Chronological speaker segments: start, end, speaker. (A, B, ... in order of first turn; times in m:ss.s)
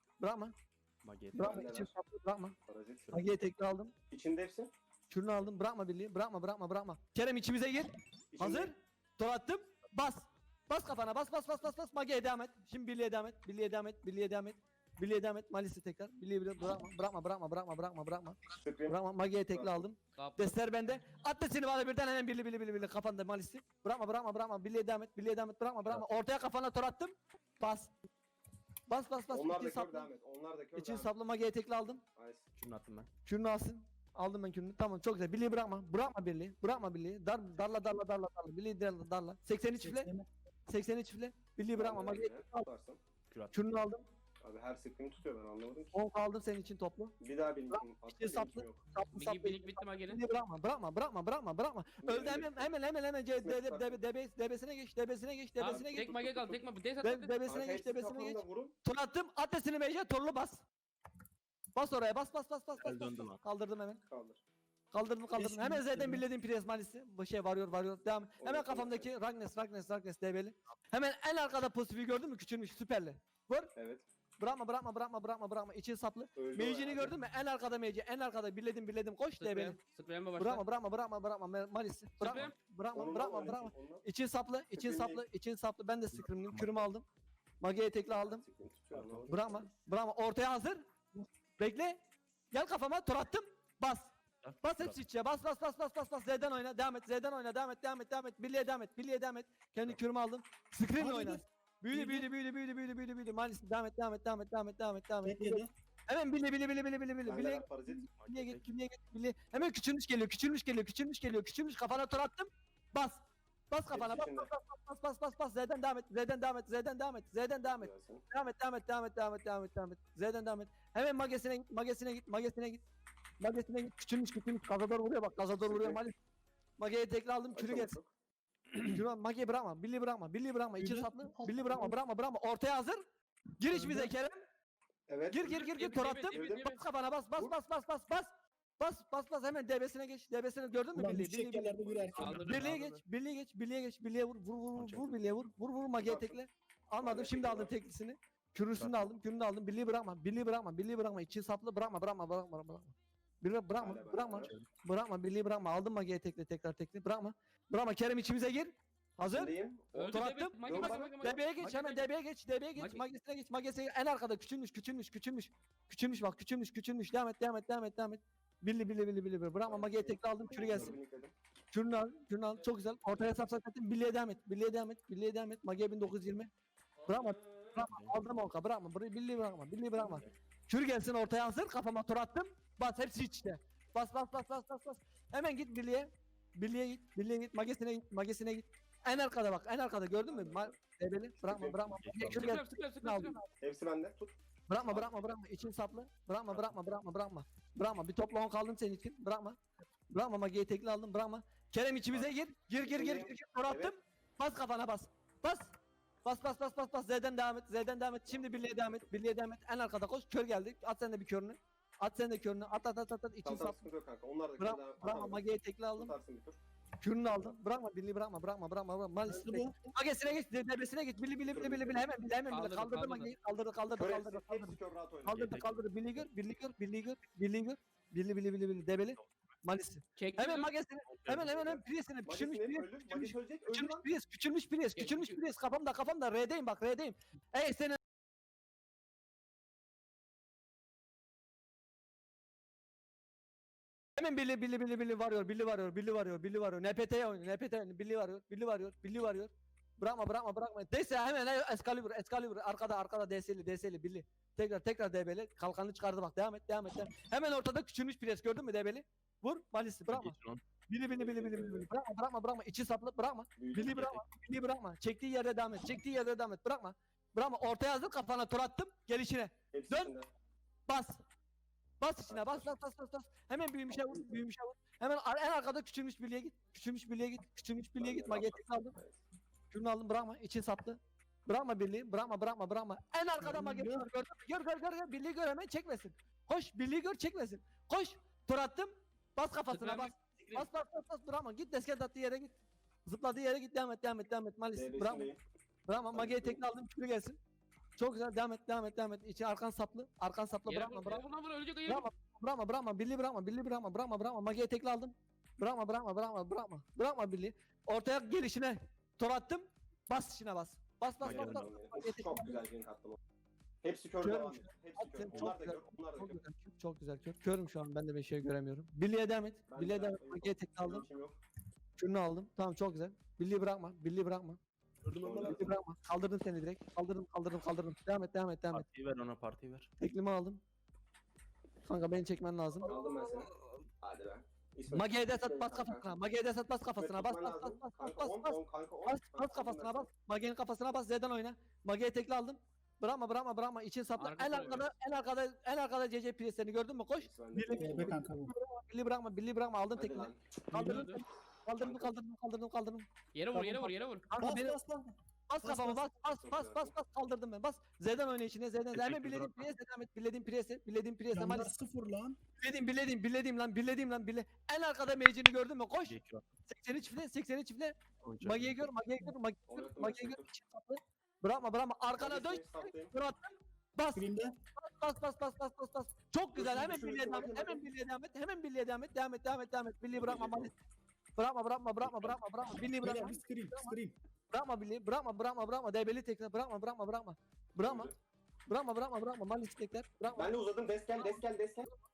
0:00.2-0:00.5 A
0:01.0-0:01.6 B
0:01.3-0:02.6 A
0:01.4-0:01.9 C
0:02.6-0:03.1 C
0:03.1-0:03.9 A
0:04.1-0:04.7 C
0:05.1-0:27.9 A
0:08.3-0:08.7 C
0:18.6-0:19.0 C
0:19.5-0:19.8 C
0:20.2-0:20.6 D
0:28.9-0:30.1 A
0:29.3-0:31.2 C
0:30.7-0:32.0 A
0:32.2-0:32.5 C
0:32.6-0:33.1 B
0:33.2-0:40.1 A
0:39.8-0:40.3 E
0:40.7-0:42.7 A
0:41.7-0:43.0 C
0:43.3-0:43.6 B
0:43.5-0:44.0 A
0:44.4-0:46.0 C
0:45.9-0:47.1 A
0:47.2-0:48.9 C
0:47.7-0:56.0 A
0:49.1-0:50.2 D
0:52.0-0:52.7 C
0:53.4-0:54.0 C
0:55.6-0:57.3 D
0:55.6-0:56.6 C
0:57.0-1:00.6 A
0:57.4-0:58.7 C
1:01.7-1:04.0 A
1:02.8-1:03.4 B
1:04.1-1:04.4 C
1:04.9-1:13.7 A
1:05.3-1:06.2 E
1:08.4-1:09.1 C
1:13.7-1:14.0 C
1:14.4-1:19.8 A
1:16.4-1:17.2 C
1:19.4-1:20.6 D
1:20.4-1:27.0 A
1:22.2-1:22.5 D
1:22.9-1:24.0 C
1:24.7-1:25.2 C
1:26.1-1:26.8 B
1:27.6-1:28.4 A
1:28.1-1:29.7 C
1:28.9-1:29.2 B
1:29.3-1:32.0 A
1:32.5-2:02.8 A
1:34.4-1:35.0 B
1:41.0-1:42.3 E
1:45.2-1:45.7 E
1:47.2-1:48.1 C
1:48.1-1:48.7 B
1:53.9-1:54.5 C
1:57.6-1:58.2 C
2:03.4-2:06.1 A
2:05.4-2:06.0 C
2:06.8-2:08.0 A
2:07.5-2:08.1 C
2:08.7-2:13.0 A
2:10.8-2:12.0 E
2:13.6-2:14.4 A
2:13.7-2:14.1 E
2:15.1-2:15.5 C
2:15.3-2:39.5 A
2:15.4-2:16.8 D
2:16.3-2:16.7 C
2:20.9-2:22.4 E
2:22.1-2:22.8 B
2:22.2-2:23.0 D
2:24.8-2:25.4 B
2:26.0-2:26.4 C
2:27.0-2:27.7 C
2:28.8-2:29.1 B
2:33.8-2:34.5 C
2:34.4-2:34.7 B
2:39.2-2:41.4 C
2:39.9-2:42.1 D
2:40.1-2:50.9 A
2:42.7-2:43.0 D
2:49.6-2:51.3 C
2:50.6-2:50.9 B
2:51.7-2:56.5 A
2:57.1-3:13.4 A
2:57.1-2:57.6 C
2:57.8-2:58.2 B
3:00.0-3:00.2 C
3:10.2-3:10.8 C
3:11.4-3:11.8 C
3:11.9-3:12.6 B
3:12.4-3:13.4 D
3:13.6-3:15.3 C
3:14.7-3:19.6 A
3:20.1-3:25.7 A
3:22.8-3:23.9 C
3:26.2-3:33.8 A
3:28.3-3:29.2 C
3:33.4-3:35.4 C
3:34.6-3:36.1 A
3:36.0-3:36.6 C
3:37.0-3:58.0 A
3:37.2-3:37.6 C
3:39.3-3:39.9 E
3:41.5-3:42.1 C
3:42.5-3:43.3 D
3:43.9-3:45.4 C
3:45.3-3:46.2 B
3:50.2-3:50.7 D
3:51.1-3:51.5 B
3:51.5-3:54.1 C
3:54.9-3:55.4 D
4:04.2-4:20.4 A
4:20.1-4:20.6 B
4:20.9-4:30.1 A
4:21.1-4:21.9 C
4:23.6-4:24.0 C
4:23.8-4:24.2 B
4:29.7-4:30.3 C
4:30.9-4:31.2 A
4:32.0-4:39.0 A
4:32.3-4:32.7 C
4:33.9-4:34.4 C
4:38.0-4:39.2 C
4:39.7-4:55.3 A
4:43.4-4:44.1 E
4:49.7-4:50.7 D
4:54.7-4:55.4 C
4:55.9-4:57.4 A
4:56.1-4:56.6 C
4:58.0-5:01.2 A
5:00.6-5:02.1 D
5:01.9-5:12.6 A
5:11.2-5:11.7 B
5:11.2-5:13.2 C
5:13.8-5:16.4 C
5:14.2-5:21.0 A
5:15.3-5:15.8 B
5:19.7-5:21.3 C
5:22.0-5:24.6 A
5:25.0-5:25.4 B
5:25.1-5:25.7 C
5:25.3-5:25.5 E
5:25.3-5:28.9 A
5:28.7-5:29.9 B
5:30.0-5:30.6 A
5:31.8-5:32.9 A
5:32.9-5:33.5 C
5:33.0-5:33.3 D
5:34.0-5:36.1 C
5:34.9-5:53.0 A
5:37.0-5:40.1 C
5:44.2-5:44.9 D
5:47.2-5:48.2 C
5:47.8-5:48.5 E
5:49.9-5:50.6 C
5:50.7-5:51.1 E
5:50.8-5:51.2 D
5:51.8-5:52.2 C
5:53.3-5:54.3 D
5:53.5-5:56.0 E
5:54.3-5:54.8 A
5:55.5-6:01.7 A
5:56.4-5:57.0 C
5:58.9-5:59.7 B
6:01.3-6:02.4 E
6:02.6-6:20.7 A
6:06.0-6:06.4 B
6:08.2-6:08.9 B
6:09.7-6:10.5 C
6:12.2-6:13.1 C
6:14.1-6:14.6 E
6:16.5-6:17.8 C
6:20.1-6:20.7 C
6:21.4-6:24.0 A
6:22.0-6:22.4 B
6:22.8-6:24.2 E
6:24.5-6:28.1 A
6:27.8-6:28.1 C
6:28.7-6:30.5 A
6:30.3-6:31.9 C